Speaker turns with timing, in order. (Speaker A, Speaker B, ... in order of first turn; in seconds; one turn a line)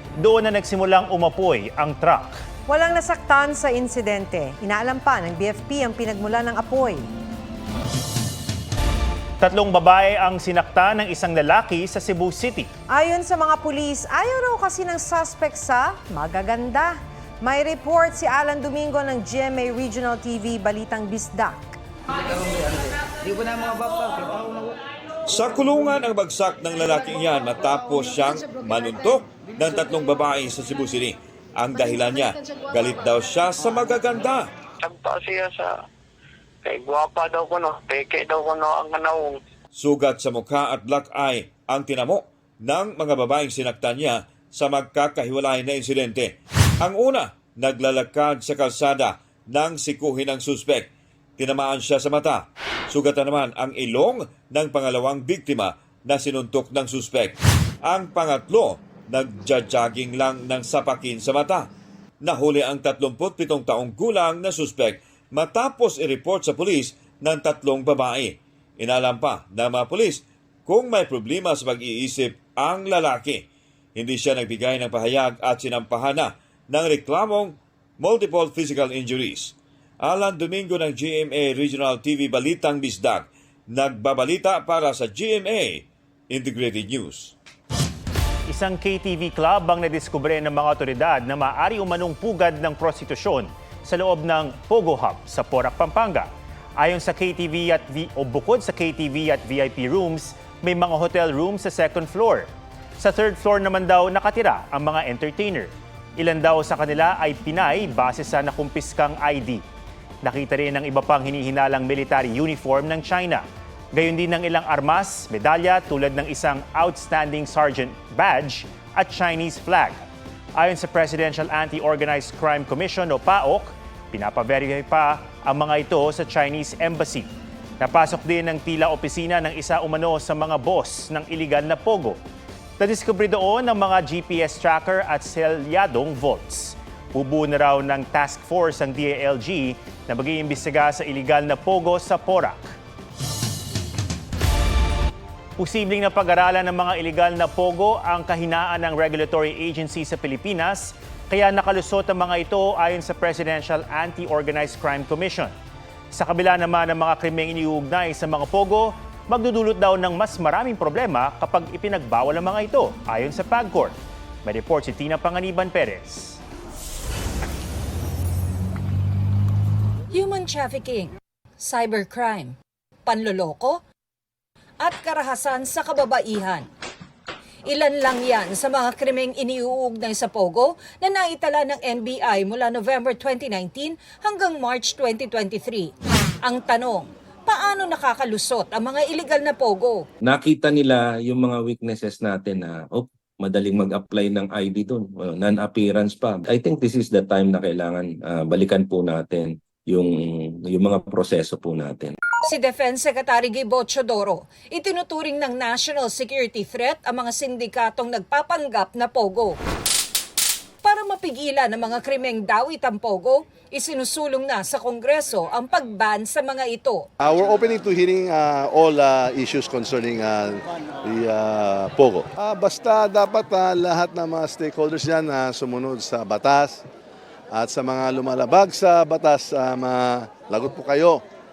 Speaker A: 0.2-2.4
Speaker B: 2.7-7.0
Speaker A: 9.4-12.7
Speaker B: 12.9-21.8
Speaker C: 25.3-34.4
Speaker D: 34.8-35.8
Speaker D: 36.6-39.4
Speaker C: 39.8-46.3
Speaker C: 46.9-50.8
Speaker C: 51.4-57.3
Speaker C: 57.9-61.6
Speaker C: 62.2-73.4
Speaker C: 74.0-87.3
Speaker A: 88.5-102.5
Speaker A: 103.0-109.6
Speaker A: 110.2-120.0
Speaker A: 120.6-132.2
Speaker A: 132.8-142.6
Speaker A: 145.6-155.5
Speaker A: 156.1-166.4
Speaker E: 170.1-173.8
Speaker E: 174.8-176.7
Speaker E: 177.7-185.9
Speaker E: 186.4-190.0
Speaker F: 190.2-202.1
Speaker E: 202.4-209.6
Speaker E: 210.8-217.1
Speaker G: 217.2-220.5
Speaker G: 221.1-226.7
Speaker G: 227.5-231.2